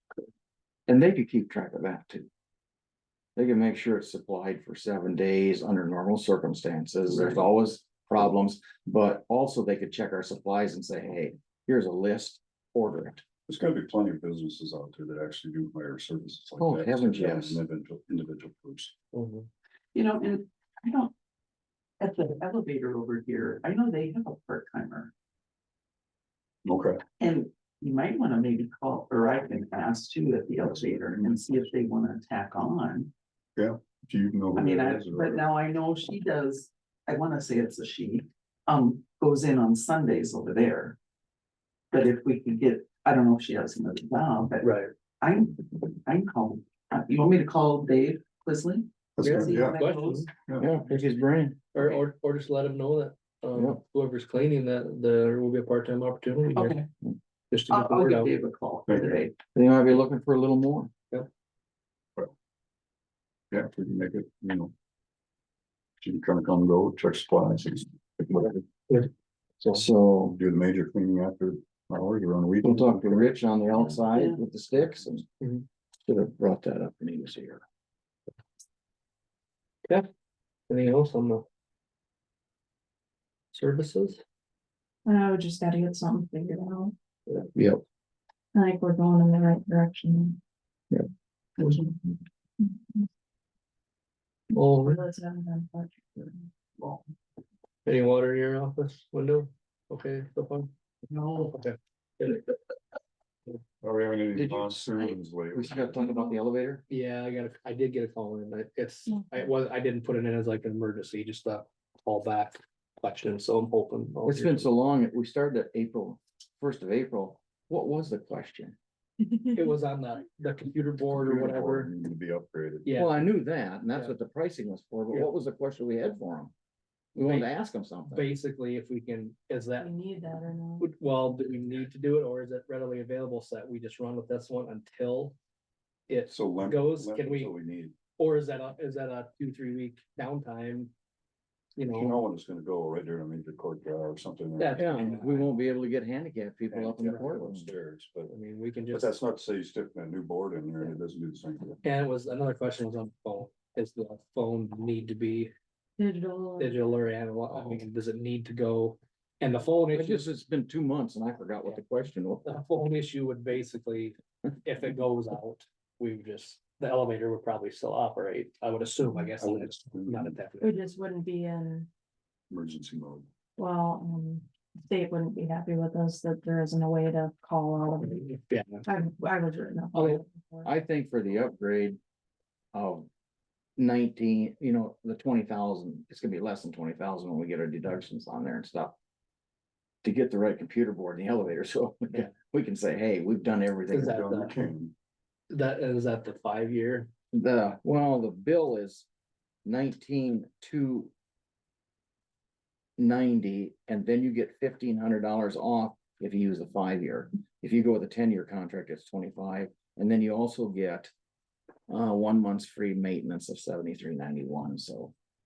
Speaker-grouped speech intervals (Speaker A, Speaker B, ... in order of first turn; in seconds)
Speaker A: 0.9-2.3, 3.4-13.2, 16.6-17.6, 50.6-52.0, 53.5-53.8, 59.5-60.9, 69.6-70.3, 72.6-75.2, 76.0-77.6, 104.3-106.8, 114.3-118.8, 122.9-126.5, 127.1-128.2, 144.8-147.7, 159.9-162.5, 180.6-182.0, 182.7-183.1, 183.8-188.9, 190.0-194.2, 197.3-199.1, 199.6-201.1, 203.0-211.1, 211.9-215.1
Speaker B: 13.5-18.9, 26.6-27.0, 30.6-31.5, 33.5-35.5, 49.2-49.8, 58.9-59.2, 63.5-64.7, 66.0-68.5, 70.3-73.3, 96.8-97.0, 103.8-106.0, 121.1-122.9, 136.3-138.0, 141.9-144.9, 146.7-148.3, 148.9-151.8, 169.4-170.4, 172.5-173.3, 194.0-194.9
Speaker C: 19.1-19.5, 44.6-44.9, 49.2-50.3, 51.7-56.8, 57.5-58.3, 80.7-81.4, 83.5-84.2, 87.3-87.7, 94.5-95.0, 97.8-100.7, 101.4-102.5, 106.9-114.7, 119.5-121.9, 122.8-123.1, 127.2-127.5, 128.1-129.9, 130.8-135.3, 136.1-137.5, 138.2-140.9, 141.8-142.2, 144.6-145.5, 148.3-149.1, 151.8-155.5, 156.6-160.3, 162.4-170.7, 178.0-178.8, 179.9-180.2, 193.9-194.5, 195.5-197.1
Speaker D: 19.9-21.1, 22.0-25.1, 27.2-33.1, 34.5-41.0, 41.9-50.3, 56.5-56.9, 57.7-59.4, 73.8-74.4, 101.1-101.5
Speaker E: 85.0-86.9, 88.5-90.4, 91.6-93.1, 94.7-96.5, 119.2-119.5, 129.8-130.9, 156.0-156.8, 170.6-171.9, 173.6-178.3, 178.8-180.7